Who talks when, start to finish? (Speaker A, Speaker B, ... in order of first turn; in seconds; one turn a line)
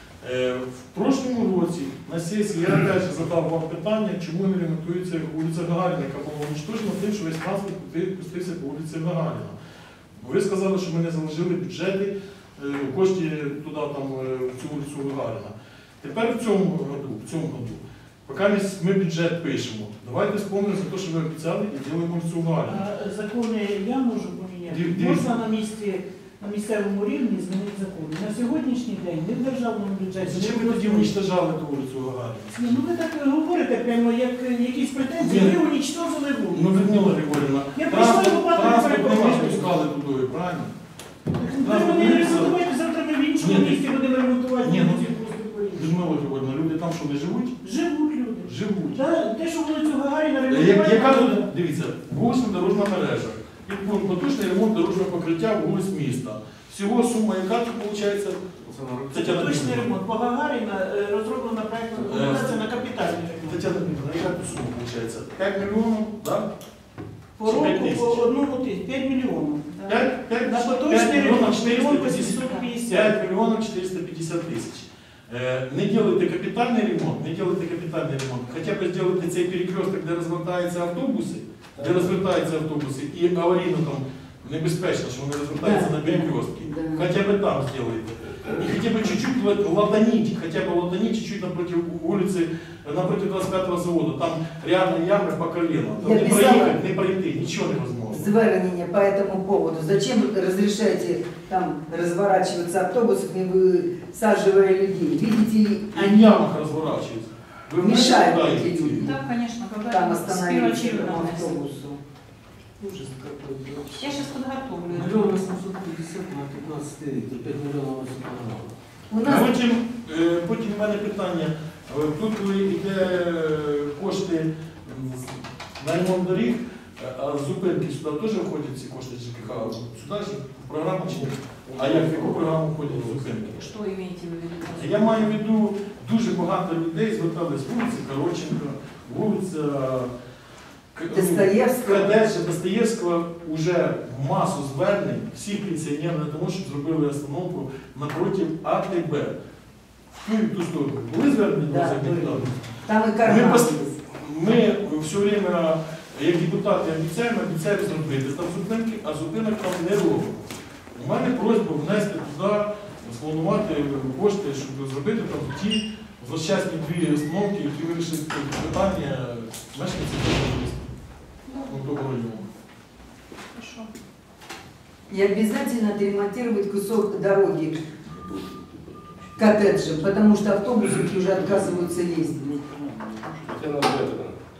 Speaker A: 0.2-9.5
Speaker A: 10.2-22.8
Speaker B: 22.7-31.1
Speaker A: 24.7-25.2
Speaker A: 30.2-32.8
Speaker B: 32.5-37.0
Speaker A: 35.2-35.6
Speaker A: 36.5-40.7
Speaker B: 37.7-39.8
Speaker B: 41.3-46.0
Speaker A: 41.6-42.6
Speaker A: 43.4-43.8
Speaker A: 44.6-45.1
Speaker A: 45.7-47.6
Speaker B: 47.6-51.5
Speaker A: 48.4-49.0
Speaker A: 50.5-58.4
Speaker C: 58.6-59.1
Speaker A: 59.1-59.9
Speaker B: 59.1-63.7
Speaker A: 62.0-62.6
Speaker A: 63.4-66.5
Speaker B: 67.4-73.2
Speaker A: 67.4-68.2
Speaker A: 69.9-98.3
Speaker C: 81.8-82.1
Speaker D: 85.6-87.1
Speaker D: 96.0-96.8
Speaker D: 98.1-106.5
Speaker A: 105.9-109.1
Speaker D: 107.8-109.2
Speaker E: 109.0-111.6
Speaker D: 109.8-112.0
Speaker C: 112.8-114.0
Speaker E: 113.9-115.3
Speaker C: 114.8-118.7
Speaker D: 119.1-119.5
Speaker A: 119.2-133.7
Speaker C: 131.1-133.5
Speaker E: 133.5-135.4
Speaker A: 134.7-140.1
Speaker A: 140.9-149.3
Speaker D: 141.1-142.2
Speaker A: 150.2-152.6
Speaker D: 151.7-154.0
Speaker A: 153.2-170.9
Speaker E: 171.4-171.8
Speaker A: 171.6-172.4
Speaker E: 173.5-173.9
Speaker D: 175.1-178.0
Speaker D: 179.3-182.6
Speaker C: 183.1-184.3